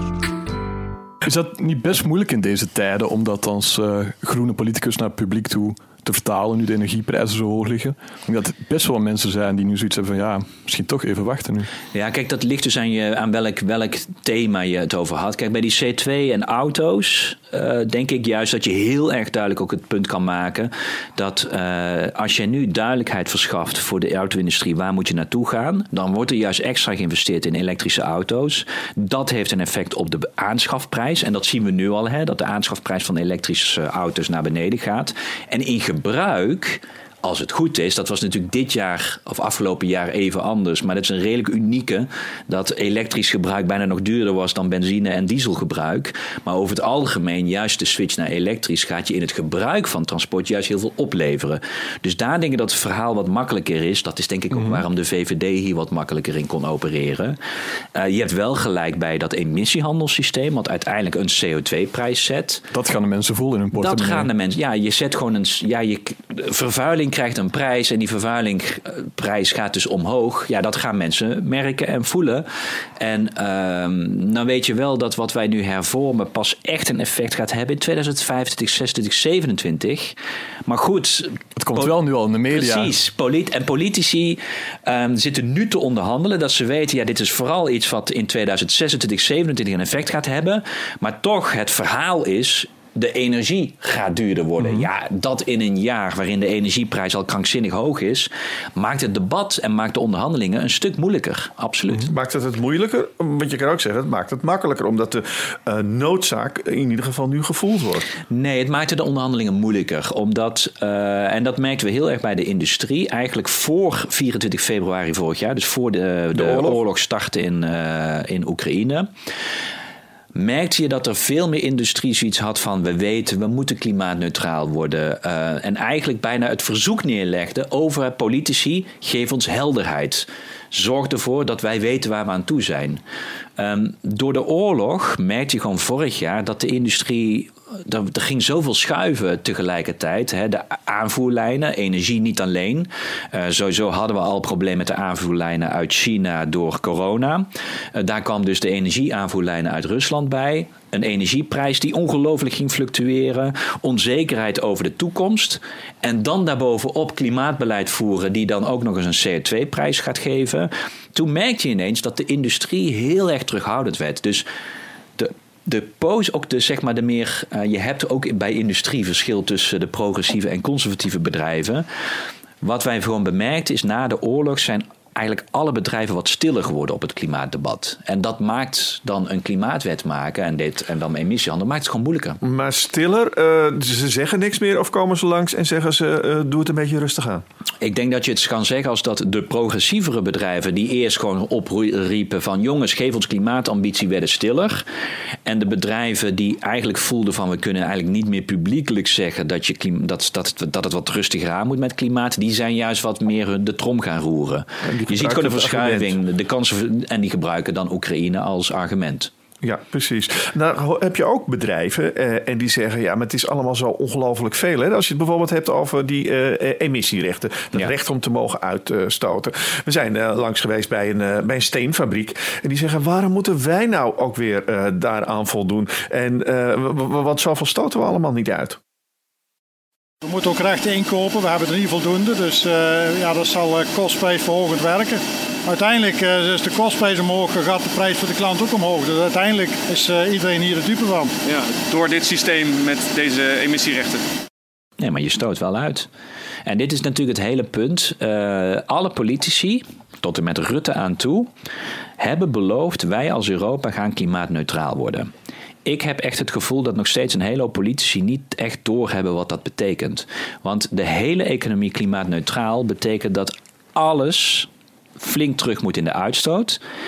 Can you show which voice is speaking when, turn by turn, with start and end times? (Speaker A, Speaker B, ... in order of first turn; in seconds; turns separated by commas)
Speaker A: 1.2-11.7, Speaker B: 11.9-57.4, Speaker A: 54.5-54.8, Speaker B: 57.9-62.6, Speaker A: 62.7-64.3, Speaker B: 63.8-72.5, Speaker B: 73.0-81.9, Speaker A: 81.6-82.9, Speaker B: 82.5-102.1, Speaker A: 94.6-94.9, Speaker C: 102.1-108.1, Speaker B: 108.3-119.1, Speaker C: 116.3-116.8, Speaker B: 120.3-133.0, Speaker B: 133.6-164.4, Speaker B: 165.2-171.8, Speaker B: 172.6-182.4, Speaker C: 182.4-187.4, Speaker B: 187.8-194.8, Speaker B: 195.4-209.3, Speaker C: 204.8-206.2, Speaker C: 209.6-228.8, Speaker D: 230.2-241.3, Speaker E: 241.4-244.3, Speaker B: 245.0-246.1, Speaker B: 246.7-251.5, Speaker B: 252.2-255.3, Speaker B: 255.8-264.7, Speaker B: 265.2-266.8